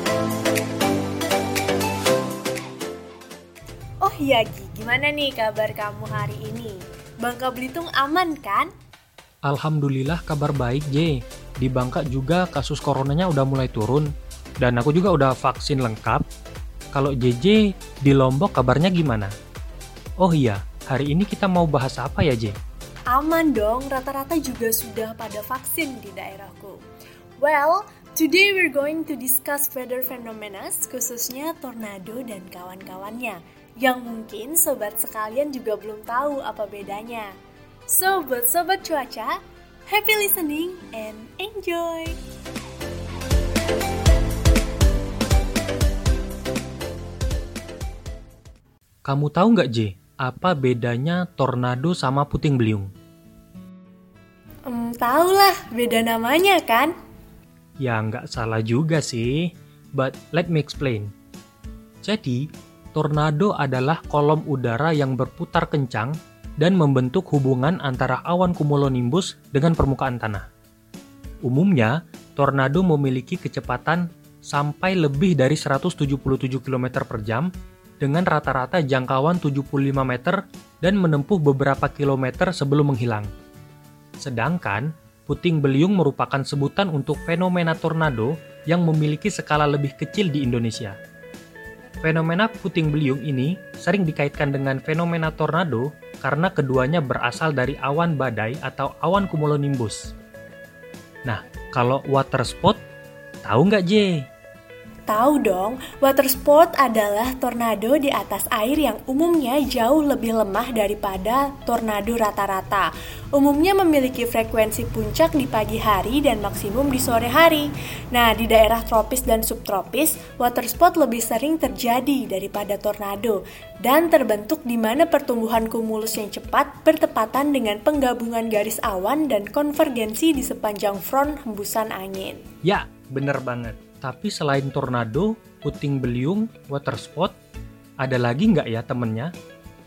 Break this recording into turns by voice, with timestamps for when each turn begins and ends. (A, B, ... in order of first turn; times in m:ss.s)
0:04.0-0:08.7 A
0:09.5-0:16.2 B
0:16.9-0:19.3 B
0:20.2-0:22.6 B
0:23.1-0:26.8 A
0:27.4-0:37.3 A
0:37.9-0:42.2 A
0:49.0-0:52.9 B
0:54.7-0:56.9 A
0:57.8-1:01.1 B
1:02.0-1:10.5 B
1:11.4-1:17.5 B
1:18.0-1:23.3 B
1:24.2-1:31.0 B
1:32.0-1:40.1 B
1:41.3-1:42.8 B
1:43.4-1:44.2 B
1:45.1-2:12.4 A
2:12.6-2:17.3 B
2:18.0-2:19.3 B